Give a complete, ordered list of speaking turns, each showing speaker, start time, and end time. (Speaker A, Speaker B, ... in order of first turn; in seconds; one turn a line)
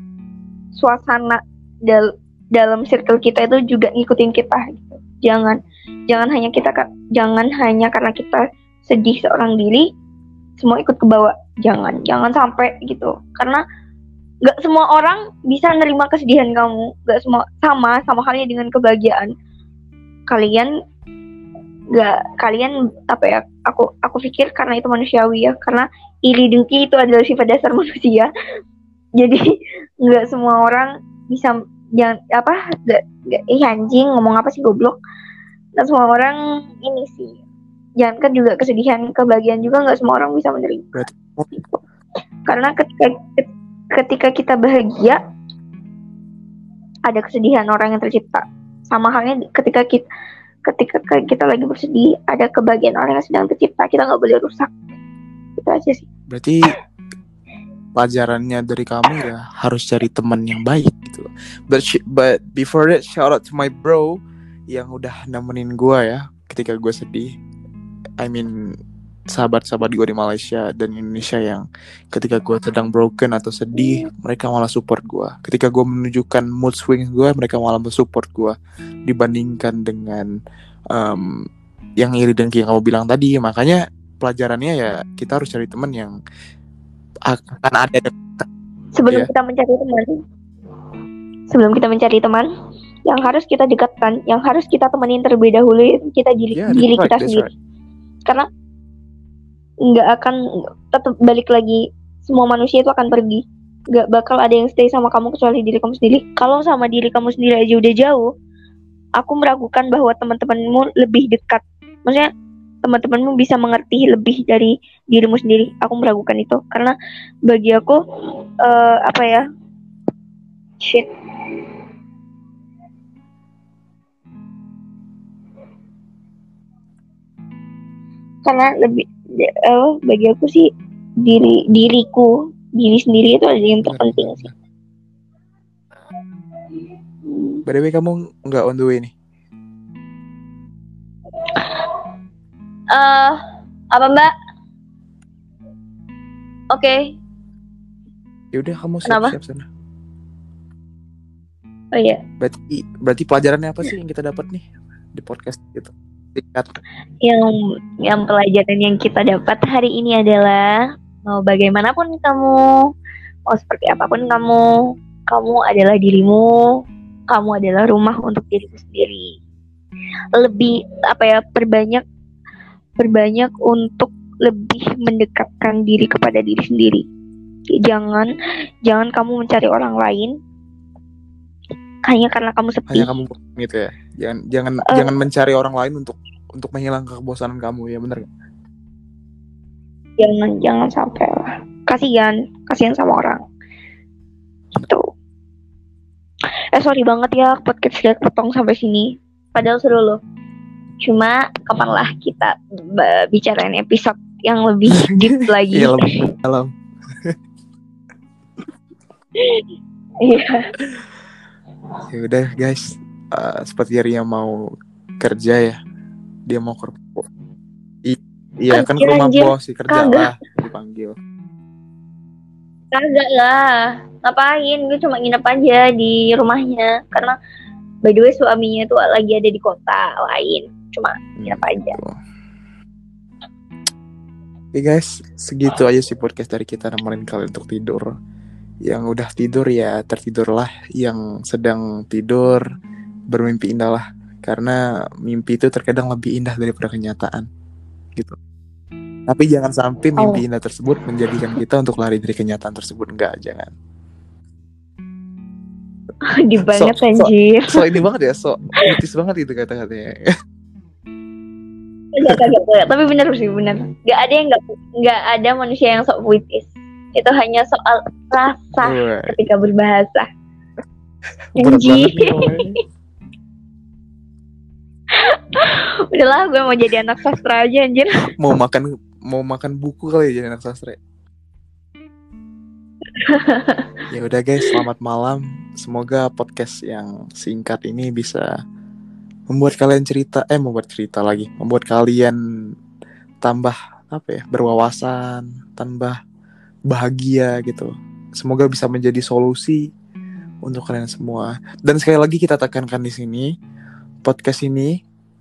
Speaker A: 0.8-5.6
Speaker A: 6.1-9.9
Speaker A: 10.6-13.6
Speaker A: 14.4-19.3
Speaker A: 20.3-20.7
Speaker A: 21.9-28.3
Speaker A: 30.0-35.0
Speaker A: 35.8-37.4
Speaker A: 38.0-40.9
Speaker B: 40.9-41.5
Speaker A: 41.5-41.8
Speaker A: 42.5-45.2
Speaker A: 47.1-50.0
Speaker A: 50.7-54.7
Speaker A: 55.6-56.1
Speaker B: 56.3-56.6
Speaker B: 58.0-64.2
Speaker B: 64.7-67.3
Speaker B: 68.2-68.5
Speaker B: 69.3-78.6
Speaker B: 79.1-80.2
Speaker B: 80.9-81.3
Speaker B: 82.0-86.2
Speaker B: 87.3-88.5
Speaker A: 89.0-90.2
Speaker A: 91.5-92.5
Speaker A: 93.1-97.5
Speaker B: 96.5-97.5
Speaker A: 99.9-108.3
Speaker A: 109.2-112.3
Speaker A: 112.8-116.9
Speaker A: 117.5-118.0
Speaker A: 118.6-119.4
Speaker A: 120.8-121.1
Speaker A: 128.5-130.7
Speaker A: 131.2-134.4
Speaker B: 133.8-134.5
Speaker A: 137.3-137.6
Speaker B: 137.7-139.1
Speaker A: 141.6-141.8
Speaker A: 142.9-143.4
Speaker A: 143.9-144.3
Speaker A: 146.7-147.1
Speaker B: 148.5-149.7
Speaker A: 149.1-149.3
Speaker A: 151.9-152.2
Speaker B: 152.4-156.7
Speaker A: 157.2-157.5
Speaker A: 158.1-162.6
Speaker A: 163.5-164.7
Speaker A: 165.3-166.7
Speaker A: 167.3-169.4
Speaker A: 170.4-172.0
Speaker A: 173.0-177.1
Speaker A: 177.8-178.3
Speaker A: 178.9-180.3
Speaker A: 182.1-183.1
Speaker B: 182.9-188.3
Speaker A: 190.2-193.4
Speaker A: 194.8-195.1
Speaker A: 196.7-200.2
Speaker A: 201.0-206.0
Speaker B: 205.0-206.7
Speaker A: 209.4-209.7
Speaker A: 210.2-210.6
Speaker B: 212.1-214.5
Speaker B: 215.2-215.8
Speaker B: 216.5-217.3
Speaker B: 218.1-221.2
Speaker A: 218.7-220.2
Speaker A: 222.9-223.6
Speaker A: 224.2-227.3
Speaker A: 228.1-232.0
Speaker B: 231.4-232.2
Speaker B: 234.7-238.1
Speaker B: 238.9-242.6
Speaker B: 243.3-247.4
Speaker B: 249.3-253.7
Speaker A: 256.4-257.8
Speaker B: 256.7-260.2
Speaker A: 262.1-270.3
Speaker B: 268.8-269.4
Speaker B: 271.5-272.8
Speaker A: 271.6-272.6
Speaker A: 275.2-278.1
Speaker B: 278.4-281.0
Speaker A: 283.2-283.9
Speaker B: 284.1-288.4
Speaker B: 289.5-292.4
Speaker B: 293.4-296.2
Speaker B: 296.9-299.8
Speaker B: 300.6-303.5
Speaker B: 304.2-304.9